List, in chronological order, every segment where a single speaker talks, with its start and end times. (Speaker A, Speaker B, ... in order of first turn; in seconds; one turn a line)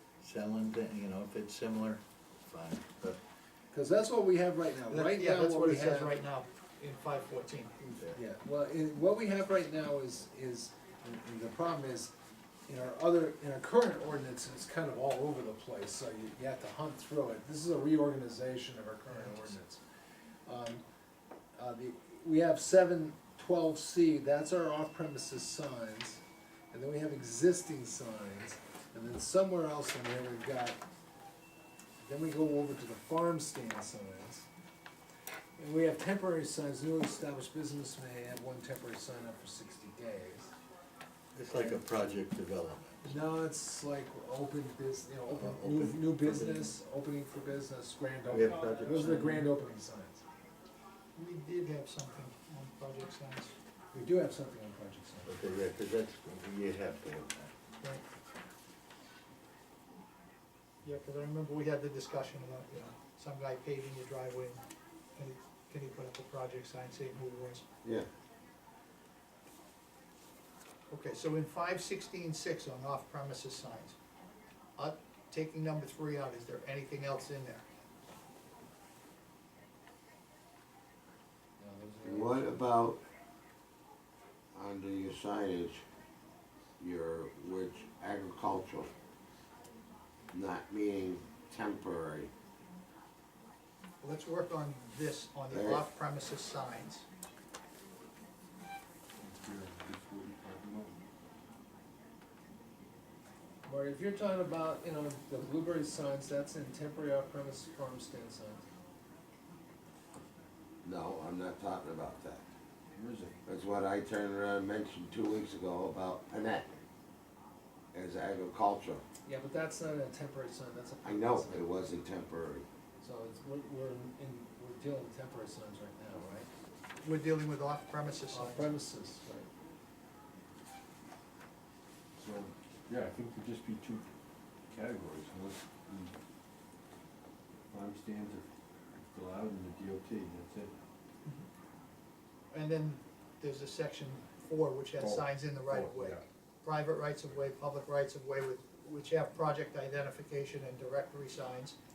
Speaker A: 0.2-3.2
Speaker B: 3.7-6.2
Speaker C: 4.9-7.7
Speaker B: 7.8-12.1
Speaker B: 12.7-19.8
Speaker B: 20.4-20.8
Speaker B: 21.6-30.8
Speaker B: 32.0-34.5
Speaker B: 35.6-40.5
Speaker A: 41.3-43.0
Speaker B: 43.0-50.2
Speaker A: 45.3-46.7
Speaker A: 48.3-49.5
Speaker C: 51.1-53.5
Speaker B: 53.9-55.6
Speaker A: 55.2-57.5
Speaker C: 60.8-64.6
Speaker C: 65.2-67.6
Speaker C: 70.9-74.0
Speaker C: 74.8-77.6
Speaker B: 81.6-82.7
Speaker D: 82.0-83.0
Speaker D: 84.5-85.8
Speaker D: 86.8-88.9
Speaker D: 90.3-92.3
Speaker C: 94.0-97.0
Speaker D: 95.5-95.8
Speaker E: 99.2-101.0
Speaker B: 103.7-108.6
Speaker D: 110.8-112.4
Speaker E: 112.9-113.3
Speaker D: 113.5-116.7
Speaker D: 117.9-119.0
Speaker B: 119.2-121.9
Speaker D: 121.0-122.6
Speaker B: 123.0-126.5
Speaker C: 127.0-128.7
Speaker B: 128.3-129.5
Speaker E: 132.2-134.0
Speaker E: 134.7-136.1
Speaker E: 137.7-138.4
Speaker E: 138.9-140.7
Speaker C: 142.5-151.8
Speaker E: 145.0-146.2